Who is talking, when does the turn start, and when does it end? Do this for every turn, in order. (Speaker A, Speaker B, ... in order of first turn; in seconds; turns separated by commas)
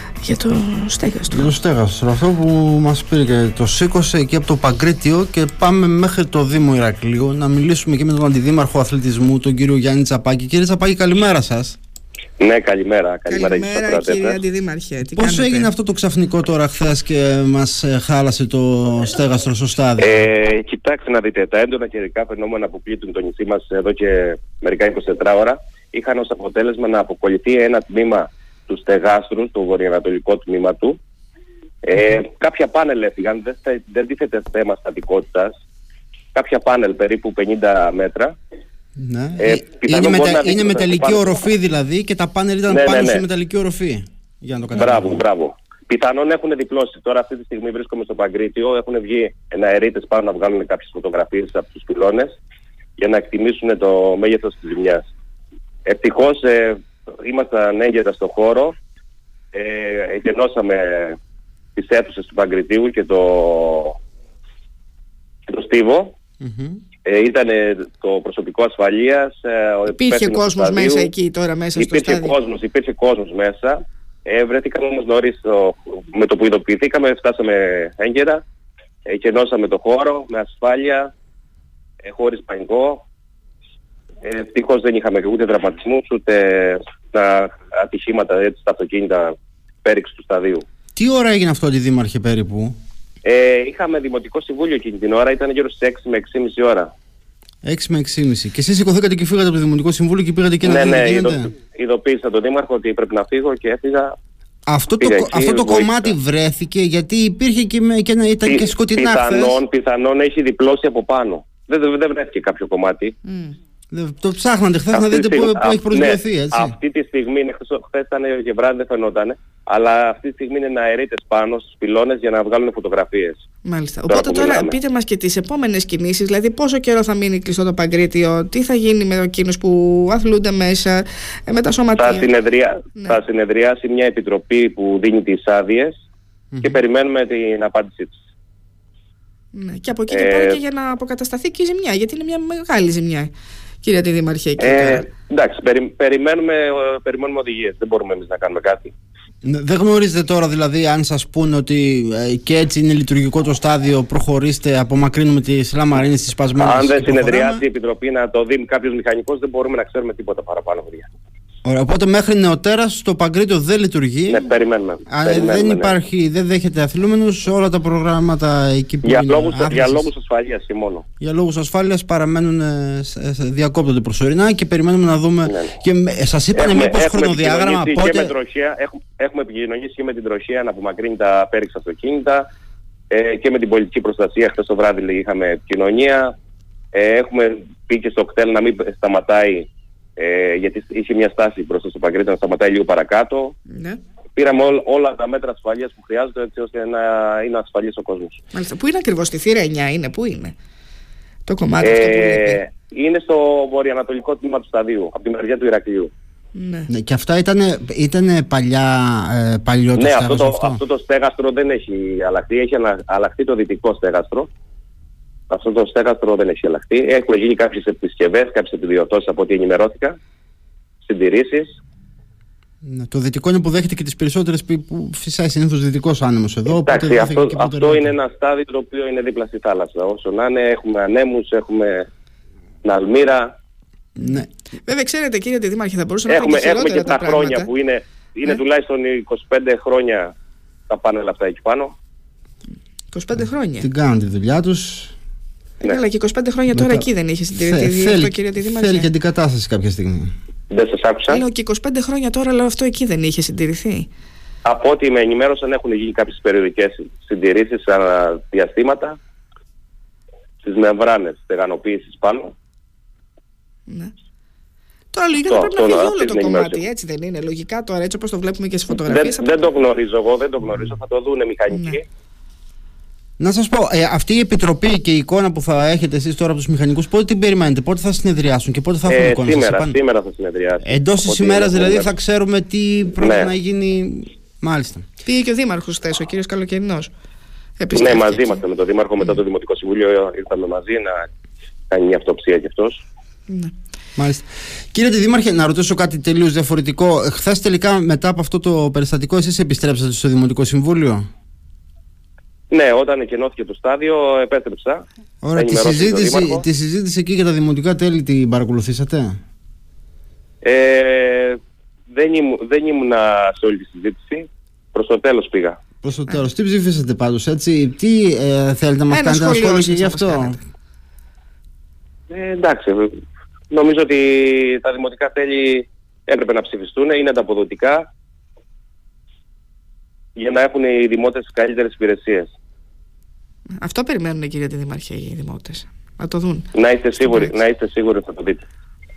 Speaker A: 0.2-1.5, Speaker B: 1.3-11.8, Speaker C: 12.4-14.4, Speaker A: 13.3-15.7, Speaker B: 15.1-20.3, Speaker C: 20.0-31.0, Speaker C: 31.8-35.5, Speaker C: 36.4-38.4, Speaker B: 39.0-45.2, Speaker C: 39.4-41.4, Speaker C: 42.7-43.2, Speaker C: 44.7-52.4, Speaker C: 53.0-55.1, Speaker C: 55.9-58.8, Speaker C: 59.5-61.2, Speaker C: 61.8-64.0, Speaker C: 65.5-66.2, Speaker B: 66.4-66.8, Speaker C: 67.0-71.1, Speaker A: 69.9-72.4, Speaker C: 71.8-78.4, Speaker C: 79.1-81.1, Speaker C: 82.0-83.0, Speaker C: 84.2-90.6, Speaker B: 91.0-92.8, Speaker C: 93.2-96.9, Speaker B: 97.6-101.5, Speaker C: 100.6-104.2, Speaker B: 104.7-109.6, Speaker C: 105.0-106.2, Speaker C: 108.5-113.1, Speaker A: 113.2-113.6, Speaker B: 113.9-116.7, Speaker C: 114.9-123.4, Speaker A: 123.7-132.3, Speaker C: 124.1-124.8, Speaker C: 132.0-135.9, Speaker A: 133.0-133.2, Speaker B: 136.5-136.8, Speaker C: 136.6-138.2, Speaker A: 139.5-143.3, Speaker C: 140.1-140.6, Speaker A: 143.8-145.1, Speaker C: 144.6-148.9, Speaker B: 149.4-157.6, Speaker C: 156.6-161.1, Speaker B: 161.7-164.5, Speaker C: 164.3-165.9, Speaker B: 165.1-170.1, Speaker C: 169.0-171.1, Speaker B: 171.2-178.3, Speaker C: 175.5-175.8, Speaker C: 176.6-182.5, Speaker C: 183.1-186.3, Speaker C: 186.9-193.6, Speaker A: 193.7-194.0, Speaker C: 194.4-198.4, Speaker A: 198.5-200.6, Speaker A: 201.5-202.6, Speaker C: 201.8-206.1, Speaker A: 206.6-206.9, Speaker B: 206.9-210.8, Speaker C: 210.0-214.5, Speaker C: 215.5-220.2, Speaker C: 221.0-221.8, Speaker B: 222.8-228.1, Speaker C: 226.7-232.1, Speaker C: 232.8-233.5, Speaker A: 234.2-237.7, Speaker B: 234.2-234.5, Speaker C: 236.3-240.3, Speaker C: 240.9-241.9, Speaker A: 243.1-243.9, Speaker B: 243.8-245.1, Speaker A: 245.8-249.1, Speaker B: 246.7-247.1, Speaker B: 247.6-250.3, Speaker C: 250.7-251.4, Speaker A: 251.3-254.1, Speaker C: 254.7-259.2, Speaker C: 260.6-262.5, Speaker A: 263.9-264.1, Speaker A: 265.1-269.5, Speaker C: 265.4-266.8, Speaker C: 269.0-272.0, Speaker A: 271.7-272.0, Speaker B: 273.4-280.0, Speaker C: 279.1-282.1, Speaker B: 280.8-285.0, Speaker C: 283.2-283.5, Speaker A: 285.2-287.1, Speaker A: 287.8-288.6, Speaker C: 287.9-291.3, Speaker C: 291.9-293.0, Speaker B: 294.2-301.3, Speaker C: 302.7-305.1, Speaker B: 305.4-309.4, Speaker C: 305.6-306.6, Speaker C: 310.6-311.6, Speaker C: 312.1-315.8, Speaker B: 316.0-320.6, Speaker A: 319.1-320.6, Speaker C: 322.3-323.1, Speaker C: 323.7-328.1, Speaker C: 330.4-332.5, Speaker A: 333.8-336.7, Speaker C: 336.7-338.6, Speaker A: 337.2-337.5